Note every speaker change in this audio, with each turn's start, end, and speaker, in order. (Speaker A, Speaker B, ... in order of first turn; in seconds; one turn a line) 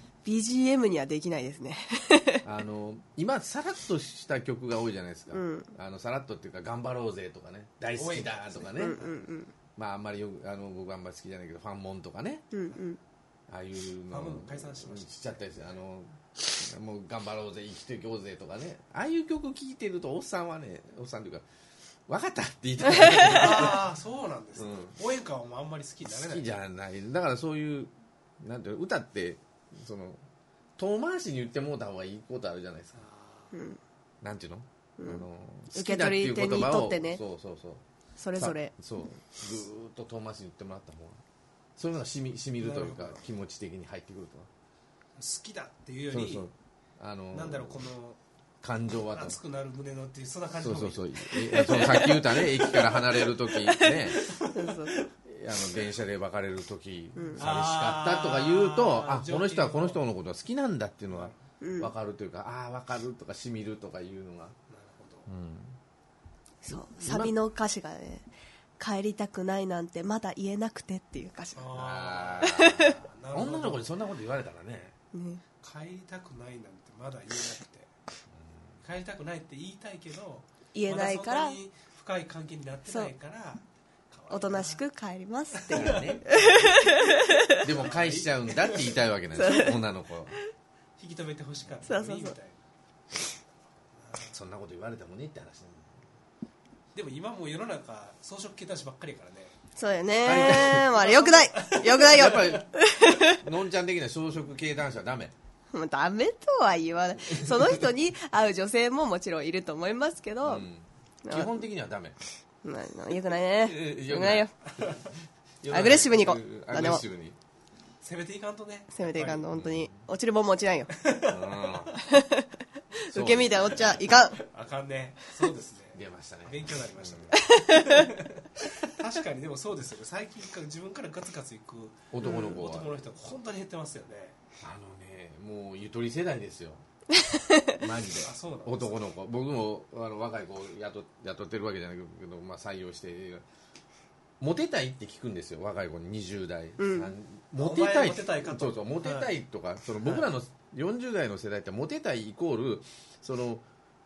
Speaker A: 0.2-2.5
Speaker B: 2.4-9.0
Speaker A: 5.3-5.7
Speaker C: 8.0-9.2
Speaker A: 8.8-9.5
Speaker B: 9.8-12.5
Speaker A: 12.5-13.0
Speaker B: 13.5-21.4
Speaker C: 14.1-15.5
Speaker B: 22.1-23.9
Speaker C: 23.2-26.5
Speaker B: 24.6-25.0
Speaker B: 26.1-30.2
Speaker B: 30.8-33.0
Speaker C: 33.0-33.5
Speaker A: 33.5-33.8
Speaker B: 34.2-37.8
Speaker A: 35.0-37.2
Speaker A: 38.2-38.7
Speaker B: 38.4-41.2
Speaker B: 41.8-44.5
Speaker C: 42.6-43.2
Speaker C: 45.2-46.5
Speaker B: 46.1-47.8
Speaker C: 47.3-48.2
Speaker B: 48.6-49.4
Speaker C: 49.1-55.1
Speaker B: 50.6-54.2
Speaker A: 51.7-52.1
Speaker A: 53.7-55.0
Speaker B: 55.3-64.6
Speaker A: 57.2-57.4
Speaker C: 57.4-60.0
Speaker C: 61.1-61.4
Speaker A: 61.6-61.9
Speaker C: 64.7-65.3
Speaker B: 65.3-65.8
Speaker A: 66.6-68.3
Speaker B: 66.7-67.3
Speaker A: 68.8-71.7
Speaker C: 71.6-73.9
Speaker B: 71.7-75.0
Speaker A: 72.4-73.0
Speaker A: 75.1-75.4
Speaker C: 75.6-77.9
Speaker B: 78.3-78.8
Speaker C: 78.8-84.8
Speaker A: 80.7-81.6
Speaker A: 82.9-83.1
Speaker A: 84.3-87.6
Speaker C: 85.5-87.0
Speaker B: 85.7-86.4
Speaker C: 87.6-89.0
Speaker B: 87.6-90.4
Speaker A: 89.3-89.8
Speaker C: 91.0-92.6
Speaker A: 91.9-92.4
Speaker C: 94.0-94.3
Speaker B: 94.3-96.0
Speaker C: 96.9-99.6
Speaker A: 99.8-103.4
Speaker B: 100.2-100.9
Speaker C: 100.3-102.6
Speaker B: 102.0-105.3
Speaker A: 105.7-110.7
Speaker B: 107.3-107.8
Speaker B: 110.4-112.2
Speaker A: 111.2-111.6
Speaker A: 112.6-114.5
Speaker B: 113.6-115.1
Speaker B: 115.6-117.4
Speaker A: 115.7-117.0
Speaker C: 118.0-119.5
Speaker A: 118.9-121.0
Speaker B: 119.5-120.0
Speaker C: 120.9-121.9
Speaker B: 121.3-122.0
Speaker A: 122.0-124.4
Speaker B: 123.1-124.1
Speaker C: 123.8-134.4
Speaker B: 125.9-127.4
Speaker A: 127.3-128.1
Speaker B: 132.1-133.1
Speaker A: 132.2-132.6
Speaker B: 134.6-136.8
Speaker A: 137.1-137.8
Speaker B: 137.8-143.4
Speaker C: 138.2-139.0
Speaker B: 144.4-153.7
Speaker A: 146.8-147.1
Speaker C: 147.6-149.3
Speaker C: 150.0-150.3